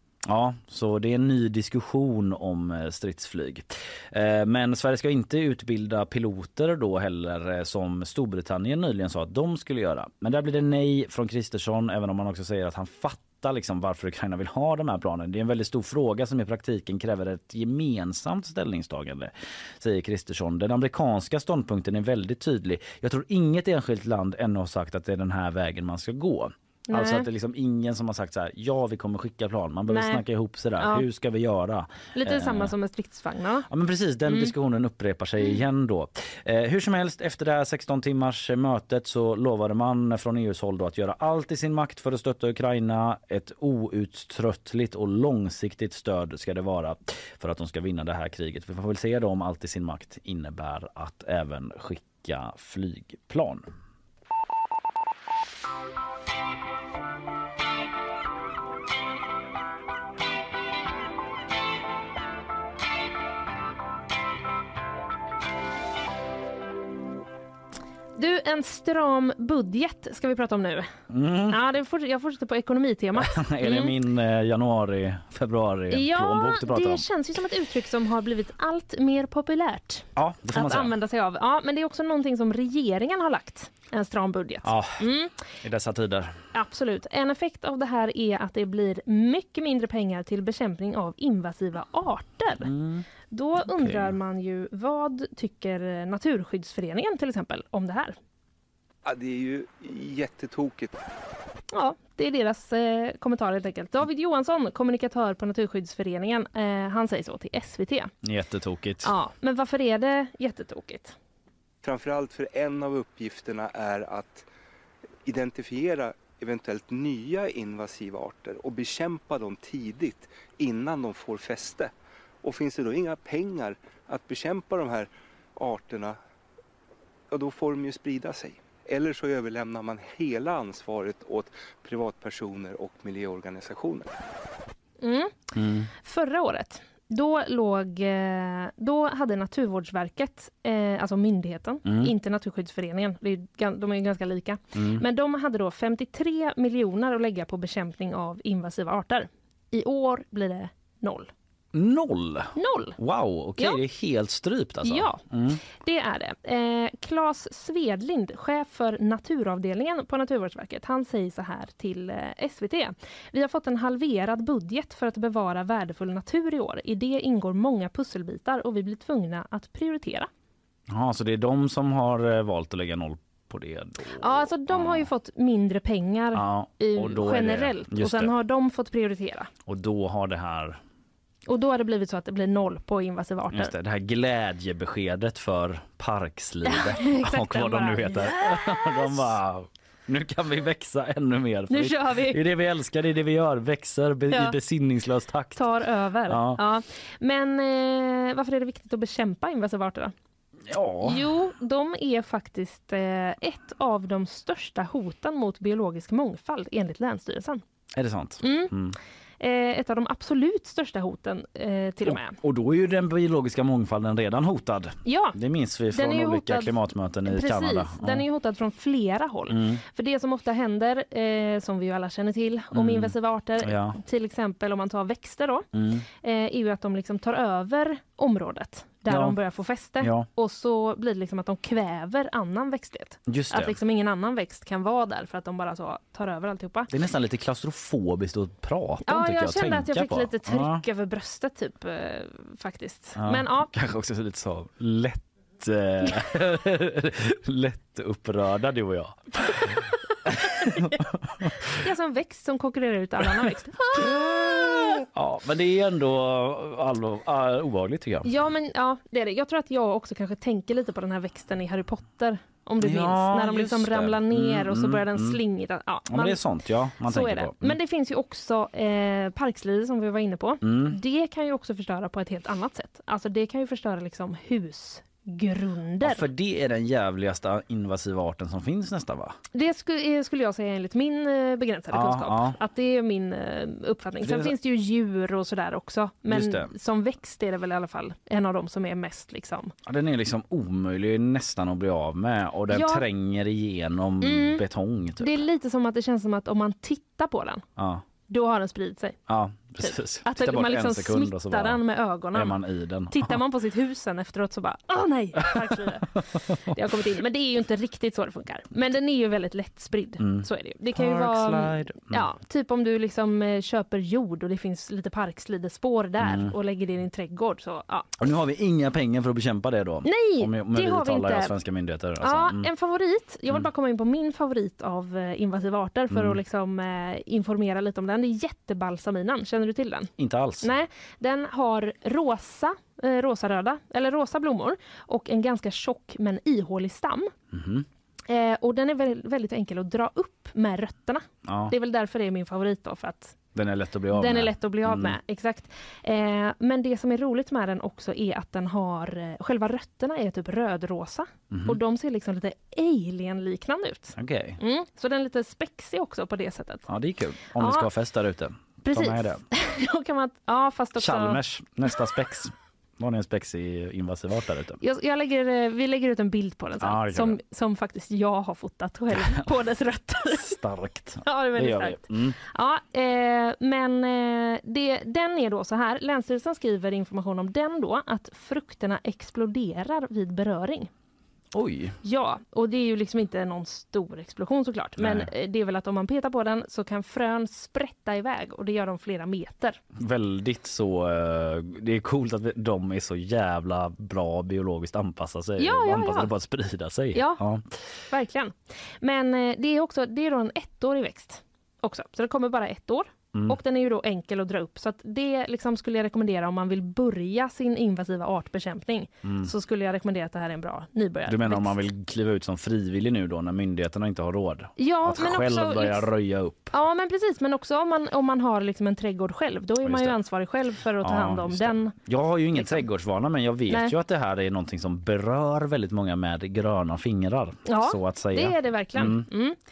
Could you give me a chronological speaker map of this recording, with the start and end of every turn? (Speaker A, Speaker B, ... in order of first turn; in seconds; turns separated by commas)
Speaker A: 0.2-32.7, Speaker B: 26.9-27.2, Speaker B: 29.9-30.2, Speaker B: 30.8-31.0, Speaker B: 32.1-33.7, Speaker A: 33.7-53.6, Speaker B: 68.2-70.9, Speaker A: 71.1-71.6, Speaker B: 71.5-73.9, Speaker A: 73.2-77.0, Speaker B: 75.9-85.3, Speaker A: 80.2-80.9, Speaker A: 84.6-85.0, Speaker A: 85.6-86.4, Speaker B: 86.5-92.7, Speaker A: 92.6-93.0, Speaker B: 93.3-98.2, Speaker A: 93.6-94.1, Speaker C: 99.0-101.0, Speaker B: 101.7-108.1, Speaker A: 108.2-109.1, Speaker B: 109.0-111.2, Speaker C: 111.8-114.5, Speaker C: 115.2-126.2, Speaker C: 127.3-134.1, Speaker B: 135.0-135.3, Speaker A: 135.5-135.9, Speaker B: 136.0-151.3, Speaker A: 141.8-142.1, Speaker A: 144.7-145.0, Speaker A: 151.7-155.6, Speaker B: 152.5-152.9, Speaker B: 154.8-170.3, Speaker A: 170.9-175.1, Speaker B: 174.2-179.5, Speaker A: 176.3-178.3, Speaker A: 179.7-180.8, Speaker B: 181.5-183.7, Speaker A: 183.5-195.7, Speaker B: 186.6-189.2, Speaker B: 191.7-192.4, Speaker B: 194.3-194.5, Speaker B: 195.6-200.1, Speaker A: 196.3-196.6, Speaker A: 200.7-201.2, Speaker B: 201.0-207.6, Speaker A: 207.9-209.0, Speaker B: 208.4-208.7, Speaker B: 209.4-212.4, Speaker A: 212.0-218.2, Speaker B: 215.0-215.4, Speaker B: 215.9-216.7, Speaker B: 217.3-225.7, Speaker A: 219.5-219.8, Speaker A: 222.7-224.0, Speaker A: 225.7-226.1, Speaker B: 226.2-236.9, Speaker A: 229.1-229.4, Speaker A: 230.0-230.3, Speaker A: 233.3-233.8, Speaker A: 236.9-240.8, Speaker B: 239.1-243.7, Speaker A: 243.2-251.7, Speaker B: 251.8-254.1, Speaker A: 253.9-258.3, Speaker B: 254.7-255.0, Speaker B: 258.2-266.4, Speaker A: 262.8-265.4, Speaker A: 266.1-267.8, Speaker B: 267.1-276.3, Speaker A: 270.6-271.0, Speaker A: 276.0-279.4, Speaker B: 279.5-289.7, Speaker A: 281.9-282.6, Speaker A: 284.2-284.5, Speaker A: 286.3-286.7, Speaker A: 289.9-295.4, Speaker B: 292.7-293.0, Speaker B: 294.2-294.6, Speaker B: 295.2-297.6, Speaker A: 297.8-298.0, Speaker B: 298.3-299.2, Speaker A: 299.3-301.8, Speaker B: 299.8-302.6, Speaker A: 302.3-303.4, Speaker B: 303.1-306.1, Speaker A: 305.4-306.4, Speaker B: 306.7-318.1, Speaker A: 310.2-312.3, Speaker A: 316.2-316.5, Speaker A: 318.2-322.7, Speaker B: 320.0-321.5, Speaker B: 322.2-337.3, Speaker A: 326.1-326.4, Speaker A: 330.2-330.7, Speaker A: 337.5-337.9, Speaker B: 338.3-343.4, Speaker A: 341.4-341.7, Speaker A: 343.5-345.1, Speaker B: 344.1-356.9, Speaker A: 351.5-351.8, Speaker A: 354.1-354.6, Speaker A: 356.9-359.4, Speaker B: 357.5-357.9, Speaker B: 358.9-361.4, Speaker A: 361.0-364.8, Speaker B: 364.8-370.6, Speaker A: 366.8-367.4, Speaker A: 369.1-369.5, Speaker A: 370.3-372.4, Speaker B: 371.2-380.9, Speaker A: 381.5-382.0, Speaker B: 382.0-389.8, Speaker A: 385.0-385.3, Speaker A: 389.9-397.7, Speaker B: 395.6-396.3, Speaker B: 397.1-397.4, Speaker B: 398.1-411.8, Speaker A: 403.3-403.6, Speaker A: 409.2-409.5, Speaker A: 411.3-416.7, Speaker B: 414.8-416.1, Speaker B: 416.7-421.9, Speaker A: 419.8-420.2, Speaker A: 421.0-429.3, Speaker B: 422.5-422.8, Speaker B: 423.7-423.9, Speaker B: 427.6-429.6